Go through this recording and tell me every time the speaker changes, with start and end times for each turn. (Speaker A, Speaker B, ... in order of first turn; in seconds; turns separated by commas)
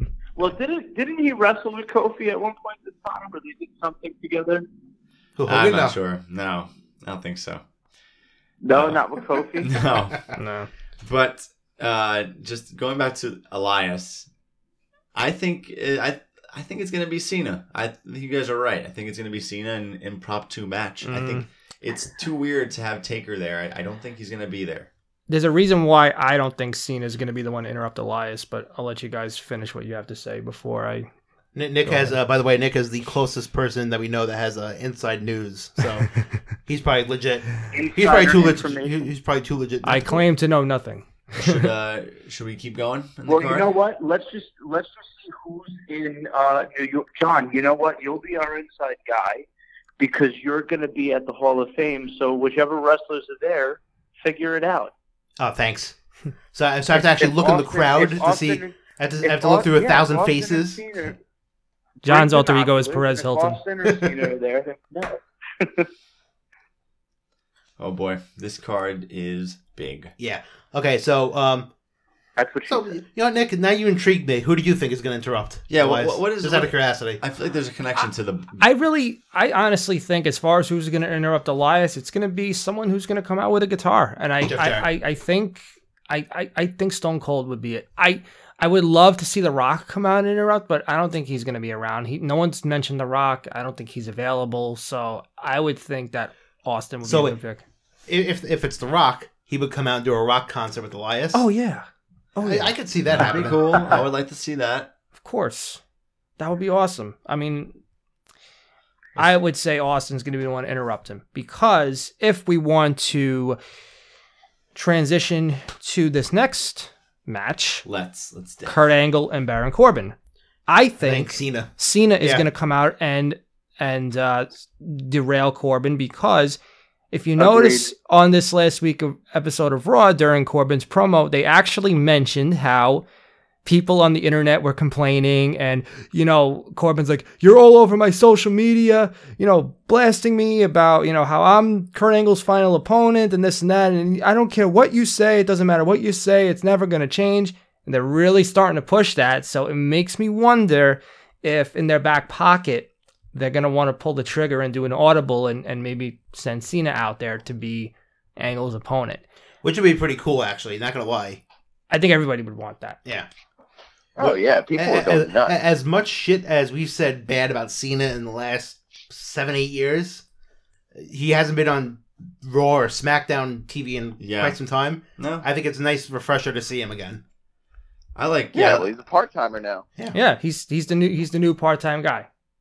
Speaker A: 0.4-4.7, Speaker B: 5.4-6.0, Speaker C: 5.5-7.6, Speaker A: 8.6-9.8, Speaker C: 8.7-9.0, Speaker C: 9.6-10.3, Speaker D: 10.3-10.7, Speaker C: 11.0-14.3, Speaker C: 15.2-24.9, Speaker D: 21.0-21.4, Speaker D: 25.3-31.1, Speaker B: 31.6-40.2, Speaker D: 31.9-32.2, Speaker A: 37.7-39.0, Speaker D: 39.8-41.7, Speaker C: 41.4-43.7, Speaker A: 43.3-49.5, Speaker A: 50.0-54.9, Speaker B: 55.4-56.0, Speaker B: 56.5-60.8, Speaker A: 57.0-61.2, Speaker D: 62.0-63.6, Speaker A: 62.0-65.9, Speaker C: 67.8-70.1, Speaker B: 70.2-71.7, Speaker A: 72.4-73.0, Speaker B: 72.7-77.2, Speaker C: 75.7-78.6, Speaker D: 78.6-97.6, Speaker B: 84.4-84.9, Speaker B: 97.0-97.4, Speaker B: 98.1-101.5, Speaker D: 101.3-102.8, Speaker B: 102.4-104.0, Speaker C: 103.1-104.9, Speaker D: 105.2-105.8, Speaker D: 106.4-107.8, Speaker D: 109.2-113.6, Speaker D: 114.8-117.8, Speaker C: 117.8-118.8, Speaker D: 118.7-120.2, Speaker D: 120.7-126.6, Speaker B: 121.0-122.5, Speaker D: 127.1-133.1, Speaker E: 127.4-127.9, Speaker D: 133.7-159.2, Speaker B: 159.6-161.4, Speaker D: 161.9-163.0, Speaker E: 164.2-165.6, Speaker B: 164.8-170.2, Speaker B: 170.9-177.2, Speaker C: 174.2-174.6, Speaker C: 175.2-175.5, Speaker C: 178.2-178.9, Speaker E: 178.5-179.9, Speaker D: 180.1-182.3